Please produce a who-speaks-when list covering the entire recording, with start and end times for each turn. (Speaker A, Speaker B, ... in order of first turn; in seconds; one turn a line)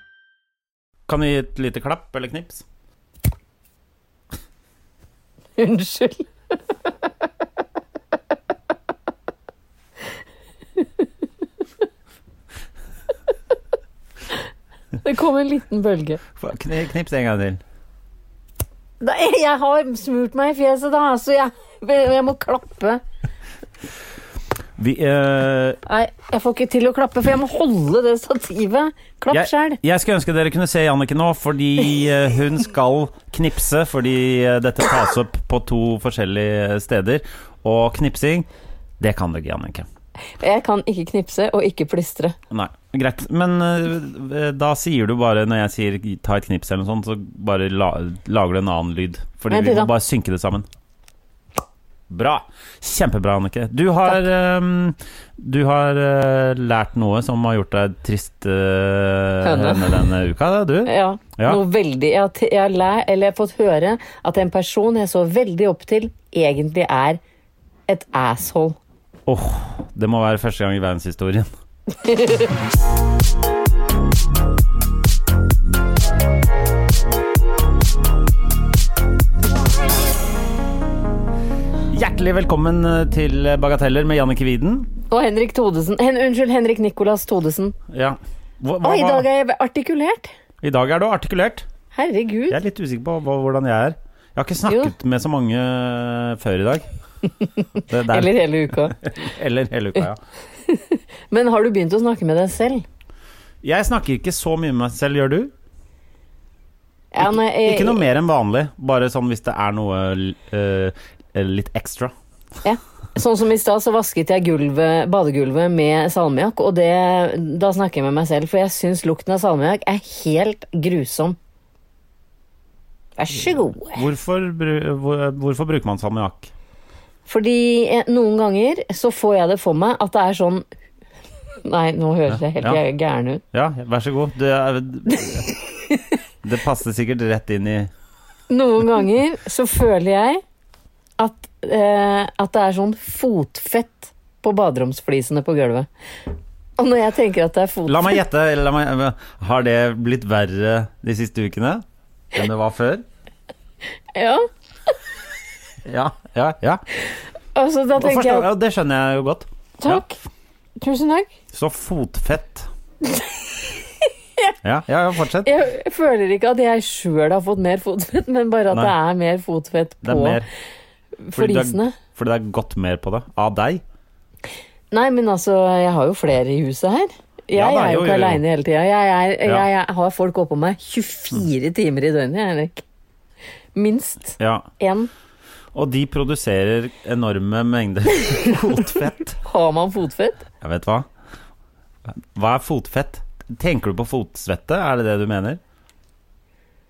Speaker A: 1.1-2.6
Speaker B: 5.6-6.3
Speaker B: 15.0-16.2
Speaker A: 16.4-17.6
Speaker B: 19.0-23.0
Speaker A: 24.8-25.8
Speaker B: 25.9-29.8
Speaker A: 29.3-38.5
Speaker A: 39.0-39.9
Speaker B: 40.4-42.4
Speaker A: 42.5-50.7
Speaker B: 49.5-49.9
Speaker A: 52.1-61.6
Speaker B: 59.4-60.0
Speaker B: 60.8-67.2
Speaker B: 67.9-68.8
Speaker A: 69.3-71.5
Speaker B: 72.0-72.5
Speaker A: 81.9-84.9
Speaker B: 85.1-87.8
Speaker A: 87.9-89.2
Speaker B: 88.8-90.3
Speaker A: 90.6-91.7
Speaker B: 91.9-92.6
Speaker A: 92.5-96.9
Speaker B: 94.7-94.9
Speaker A: 97.9-100.2
Speaker B: 98.1-99.0
Speaker B: 100.7-102.8
Speaker A: 103.6-105.5
Speaker B: 107.1-108.0
Speaker A: 107.2-112.1
Speaker B: 112.6-121.4
Speaker B: 123.2-124.0
Speaker A: 123.9-126.5
Speaker B: 127.3-130.6
Speaker B: 131.6-133.4
Speaker A: 132.3-132.8
Speaker A: 133.5-135.5
Speaker A: 136.4-137.9
Speaker B: 138.5-140.4
Speaker B: 141.2-145.9
Speaker B: 146.8-148.2
Speaker A: 147.9-153.0
Speaker B: 154.1-154.5
Speaker A: 155.8-156.8
Speaker B: 157.6-158.5
Speaker A: 157.9-160.0
Speaker B: 159.8-160.2
Speaker B: 160.8-161.3
Speaker A: 161.5-162.7
Speaker A: 164.6-165.5
Speaker B: 165.4-170.4
Speaker A: 170.0-170.4
Speaker B: 171.2-171.9
Speaker A: 171.3-173.8
Speaker B: 174.9-182.8
Speaker A: 177.5-178.4
Speaker B: 183.7-185.1
Speaker A: 184.4-184.7
Speaker A: 185.7-189.4
Speaker B: 189.4-190.4
Speaker A: 190.6-191.1
Speaker A: 192.1-195.6